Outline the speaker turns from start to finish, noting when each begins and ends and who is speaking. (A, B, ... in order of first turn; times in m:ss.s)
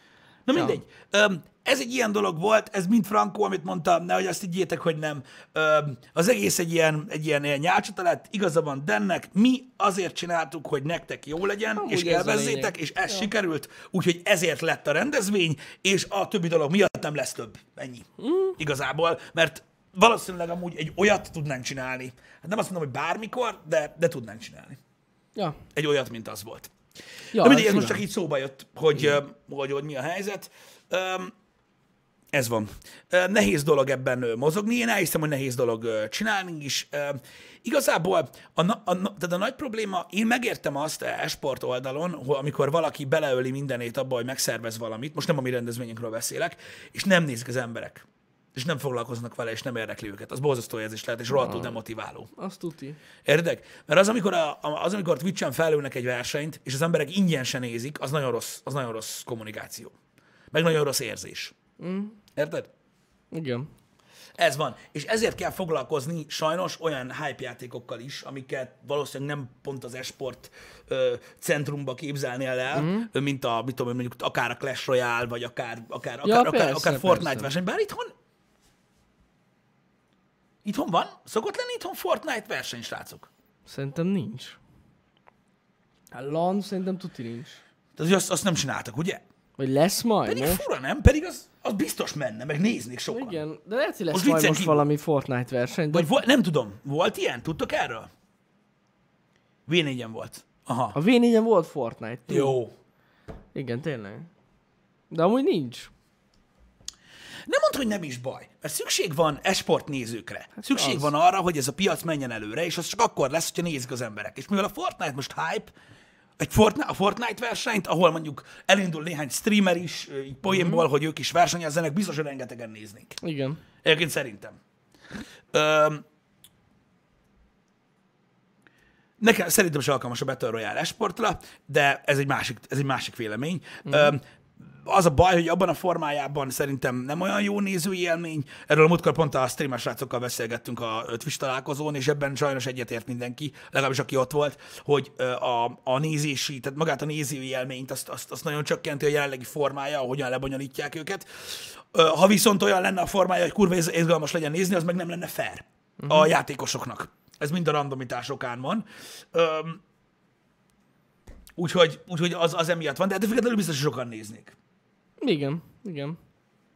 0:00.4-0:24.8 A
0:11.8-0:13.3 B
0:18.2-0:18.6 B
0:25.7-0:26.7 A
0:27.3-0:28.0 B
0:27.4-0:31.3 A
0:32.3-0:52.3 A
0:51.3-0:51.8 B
0:52.3-0:53.0 B
0:53.2-0:59.9 A
1:00.5-1:01.5 A
1:01.8-1:02.2 B
1:02.4-1:02.7 A
1:03.3-1:03.7 B
1:04.4-1:18.1 A
1:12.7-1:13.1 B
1:16.2-1:17.5 B
1:20.6-1:23.3 A
1:23.6-1:24.6 B
1:26.1-1:27.6 B
1:28.0-1:29.2 A
1:29.6-1:30.6 B
1:30.2-1:33.4 A
1:33.1-1:36.1 B
1:34.1-1:34.8 A
1:35.9-1:38.1 A
1:39.7-1:41.0 A
1:40.9-1:42.6 B
1:42.3-1:42.7 A
1:43.5-1:44.3 B
1:45.1-1:45.9 B
1:47.5-1:55.7 A
1:50.6-1:51.1 B
1:56.4-2:03.2 A
2:00.5-2:00.8 B
2:03.2-2:03.6 B
2:03.8-2:04.6 A
2:05.5-2:06.0 A
2:09.2-2:39.8 A
2:13.9-2:14.1 B
2:36.0-2:36.3 B
2:41.6-2:44.5 A
2:45.2-2:46.2 B